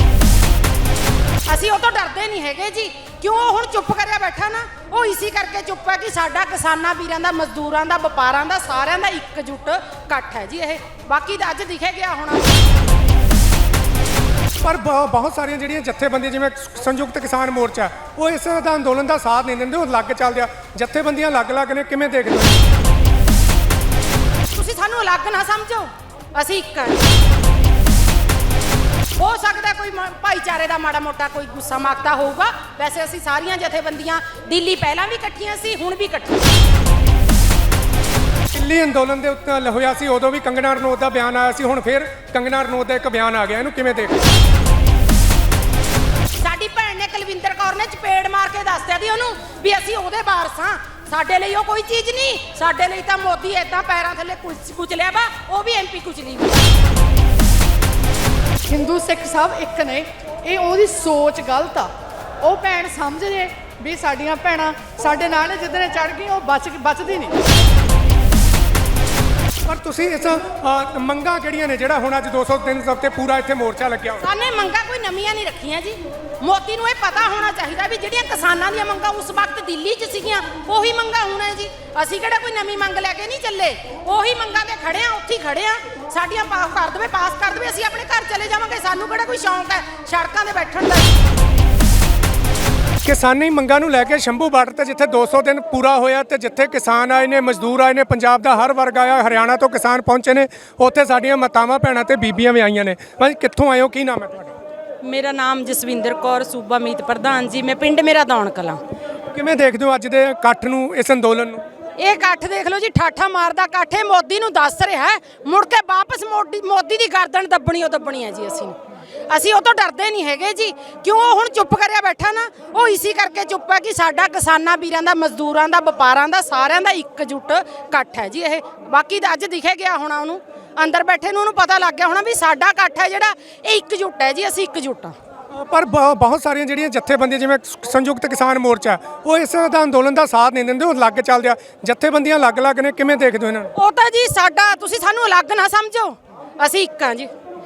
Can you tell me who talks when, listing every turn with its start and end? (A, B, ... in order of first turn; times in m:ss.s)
0:01.5-0:12.6 A
0:14.6-0:22.6 B
0:24.5-0:27.0 A
0:29.2-0:36.4 A
0:38.5-0:44.3 B
0:46.4-0:56.7 A
0:58.7-1:01.9 C
1:02.4-1:07.3 C
1:09.7-1:14.2 B
1:14.2-1:31.2 A
1:33.0-1:44.5 B
1:45.0-1:48.8 A
1:49.3-1:51.6 B
1:52.0-1:58.8 A
1:59.3-2:15.1 A
2:15.5-2:23.7 B
2:23.7-2:27.3 A